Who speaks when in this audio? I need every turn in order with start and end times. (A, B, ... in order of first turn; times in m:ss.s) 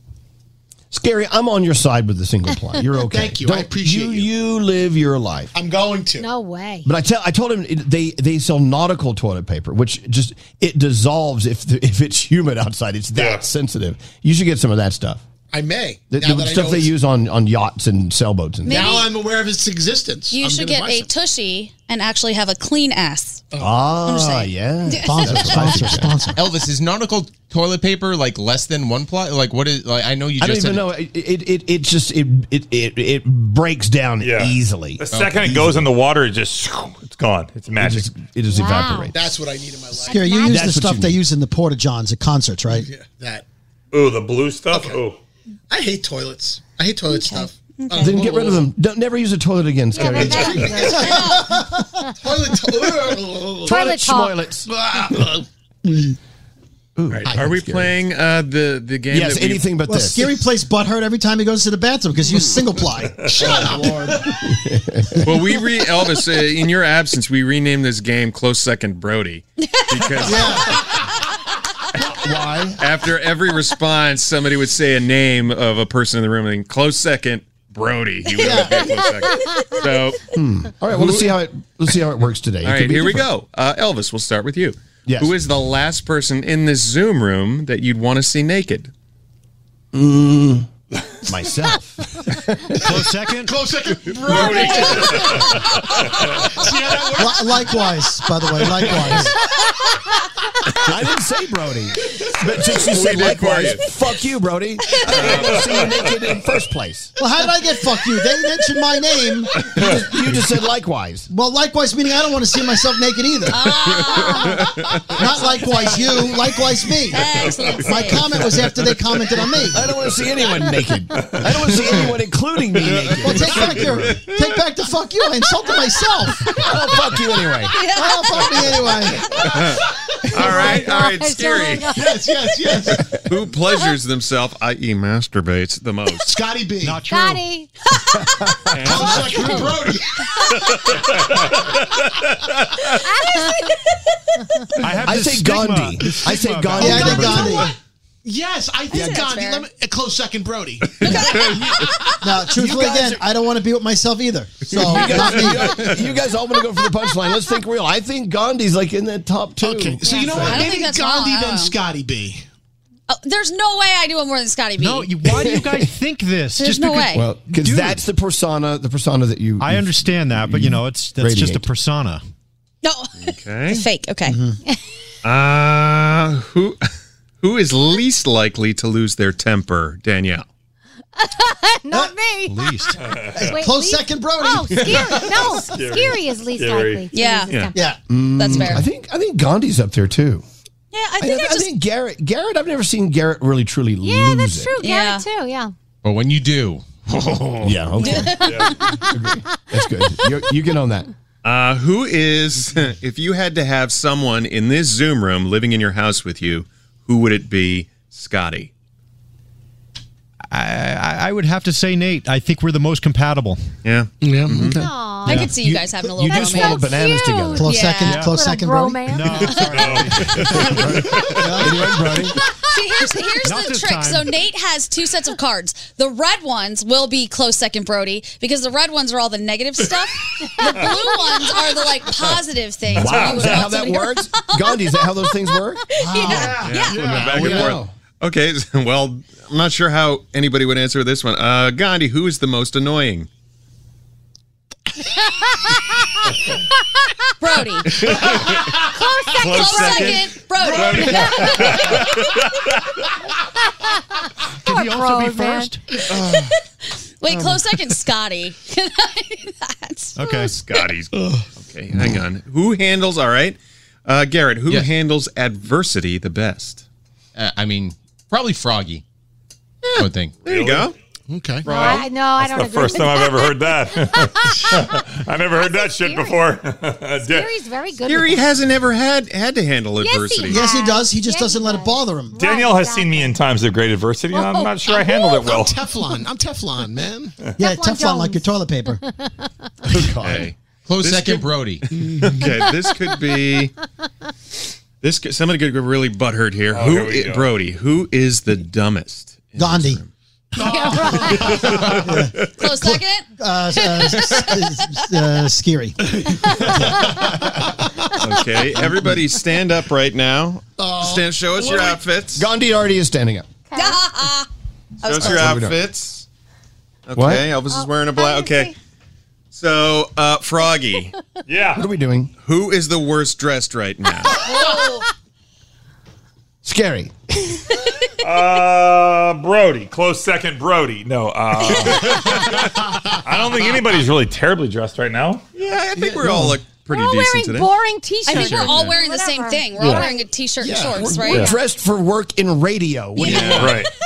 0:00.9-0:05.5 A
0:03.0-0:04.3 B
0:05.5-0:06.3 B
0:06.2-0:06.9 C
0:06.8-0:15.2 A
0:13.2-0:13.5 D
0:15.5-0:17.0 B
0:16.1-0:19.0 A
0:18.6-0:19.1 E
0:18.7-0:21.1 B
0:20.3-0:26.1 E
0:23.6-0:26.2 A
0:25.0-0:26.4 F
0:26.4-0:30.9 G
0:30.4-0:35.9 A
0:34.2-0:38.1 D
0:35.1-0:35.4 G
0:37.8-0:39.2 A
0:38.5-0:39.2 C
0:39.1-0:40.3 B
0:40.1-0:40.7 C
0:40.1-0:42.9 F
0:40.4-0:41.2 A
0:42.7-0:43.4 B
0:43.9-0:45.2 D
0:44.7-0:45.0 B
0:45.7-0:48.7 B
0:47.1-0:48.4 E
0:48.0-0:50.9 A
0:50.0-0:51.3 C
0:50.0-0:50.3 E
0:50.1-0:53.8 B
0:51.0-0:51.6 E
0:53.6-0:54.7 A
0:53.7-0:54.4 C
0:54.7-0:56.1 B
0:57.0-0:58.0 A
0:57.2-0:57.6 B
0:57.2-0:59.8 H
0:59.1-1:00.4 A
0:59.9-1:03.6 F
1:03.2-1:04.4 B
1:03.3-1:05.5 A
1:05.2-1:10.8 H
1:10.3-1:10.7 F
1:12.0-1:12.8 A
1:12.8-1:20.2 H
1:18.4-1:18.9 F
1:20.3-1:23.3 A
1:20.9-1:21.3 H
1:22.6-1:28.9 H
1:25.1-1:25.4 A
1:29.9-1:30.7 A
1:31.2-1:33.0 A
1:32.8-1:33.6 I
1:33.4-1:37.8 B
1:34.2-1:36.3 D
1:34.4-1:35.3 A
1:37.2-1:39.4 F
1:40.8-1:47.1 A
1:42.8-1:43.9 H
1:45.1-1:45.7 H
1:45.8-1:46.1 D
1:47.2-1:49.6 F
1:49.6-1:51.3 A
1:51.3-1:54.0 F
1:53.4-1:56.2 E
1:55.1-1:59.9 F
1:57.0-1:58.6 E
1:59.7-2:04.2 A
2:03.2-2:06.7 F
2:03.9-2:04.4 H
2:06.5-2:07.8 A
2:07.6-2:08.9 E
2:07.9-2:09.3 F
2:09.3-2:09.8 B
2:09.4-2:12.1 H
2:10.3-2:12.3 C
2:10.4-2:10.8 B
2:12.0-2:13.2 B
2:12.9-2:16.4 H
2:16.2-2:17.0 B
2:16.8-2:17.5 I
2:17.1-2:17.7 C
2:18.4-2:19.1 A
2:18.7-2:19.7 H
2:18.8-2:20.3 B
2:18.8-2:19.8 I
2:20.7-2:21.1 H
2:22.8-2:24.6 E
2:23.3-2:23.6 C
2:24.8-2:27.4 I
2:25.0-2:27.7 A
2:26.7-2:27.7 F
2:26.9-2:27.7 B
2:27.2-2:27.6 C
2:28.2-2:32.0 B
2:28.9-2:29.7 E
2:31.0-2:32.2 E
2:31.0-2:31.6 H
2:32.2-2:35.9 F
2:32.6-2:33.1 A
2:34.7-2:40.8 A
2:36.5-2:37.4 E
2:39.6-2:42.5 B
2:40.1-2:41.8 E
2:43.1-2:45.5 E
2:44.8-2:48.0 I
2:45.4-2:45.9 A
2:46.5-2:47.3 E
2:47.1-2:51.7 A
2:49.6-2:52.2 I
2:52.8-2:54.4 E
2:53.2-2:53.8 H
2:54.3-2:54.6 F
2:55.2-2:56.8 H
2:57.4-3:00.5 H
3:01.2-3:07.9 C
3:02.5-3:03.0 I
3:03.0-3:03.6 D
3:03.3-3:05.1 F
3:04.9-3:07.1 D
3:07.1-3:07.7 E
3:07.5-3:07.7 H
3:07.8-3:08.0 F
3:08.1-3:10.4 A
3:08.3-3:08.9 E
3:10.9-3:11.7 E
3:11.2-3:14.8 A
3:14.0-3:15.7 C
3:14.8-3:15.3 E
3:16.0-3:17.7 G
3:17.6-3:21.1 A
3:18.0-3:18.8 E
3:18.0-3:18.7 C
3:18.4-3:18.7 D
3:21.4-3:28.7 H
3:30.5-3:33.7 I
3:33.8-3:34.8 H
3:34.2-3:34.8 B
3:34.6-3:35.5 C
3:35.2-3:37.0 E
3:35.3-3:37.7 A
3:36.3-3:39.7 C
3:37.6-3:39.2 F
3:37.6-3:38.3 E
3:38.0-3:38.3 I
3:39.1-3:40.8 I
3:39.5-3:40.1 E
3:39.7-3:40.3 D
3:40.3-3:42.4 A
3:41.3-3:42.0 F
3:42.6-3:55.4 E
3:43.4-3:44.4 I
3:50.6-3:51.0 C
3:52.9-3:55.9 A
3:55.9-3:57.2 E
3:56.0-3:56.6 F
3:56.3-3:57.7 B
3:56.6-4:03.3 H
3:57.0-3:57.9 A
4:07.4-4:08.6 E
4:07.9-4:08.8 H
4:08.0-4:09.5 B
4:09.0-4:10.1 C
4:09.3-4:12.4 E
4:09.4-4:11.2 H
4:10.6-4:12.2 B
4:11.1-4:11.6 C
4:11.7-4:12.0 H
4:14.6-4:16.0 I
4:14.7-4:15.7 C
4:16.1-4:16.5 H
4:16.2-4:16.5 E
4:17.2-4:20.2 E
4:17.3-4:17.6 H
4:20.2-4:20.5 I
4:20.3-4:26.8 H
4:21.2-4:21.5 B
4:27.4-4:29.0 G
4:30.0-4:30.4 G
4:30.0-4:31.0 H
4:30.5-4:30.9 D
4:31.3-4:31.7 B
4:31.6-4:32.0 H
4:31.6-4:36.5 C
4:31.7-4:37.5 D
4:37.2-4:38.5 C
4:38.0-4:40.7 H
4:40.0-4:43.4 C
4:40.5-4:42.4 F
4:42.4-4:45.8 D
4:44.4-4:44.7 E
4:45.3-4:47.4 B
4:47.6-4:49.0 F
4:47.6-4:49.5 C
4:49.8-4:50.5 A
4:50.2-4:53.7 H
4:50.8-4:51.9 G
4:55.0-5:00.1 H
4:56.7-4:57.5 D
4:59.6-5:00.0 F
5:00.6-5:02.1 B
5:00.6-5:01.7 C
5:01.3-5:06.0 F
5:01.6-5:05.3 E
5:06.0-5:07.9 B
5:08.2-5:12.5 H
5:10.8-5:12.0 B
5:12.4-5:13.5 A
5:13.7-5:14.0 C
5:13.7-5:14.5 E
5:15.0-5:15.6 E
5:15.0-5:16.3 H
5:15.1-5:15.8 A
5:17.1-5:18.7 H
5:17.2-5:17.5 A
5:17.7-5:18.8 C
5:19.5-5:21.2 H
5:21.5-5:21.9 D
5:21.7-5:22.3 A
5:22.4-5:24.5 H
5:24.4-5:25.0 C
5:26.6-5:27.6 A
5:28.2-5:35.4 D
5:35.6-5:37.8 H
5:36.0-5:36.6 A
5:36.9-5:40.3 C
5:38.2-5:41.5 E
5:38.3-5:38.8 H
5:40.6-5:43.8 A
5:41.1-5:41.6 C
5:43.2-5:43.8 H
5:43.2-5:43.6 C
5:43.5-5:43.9 D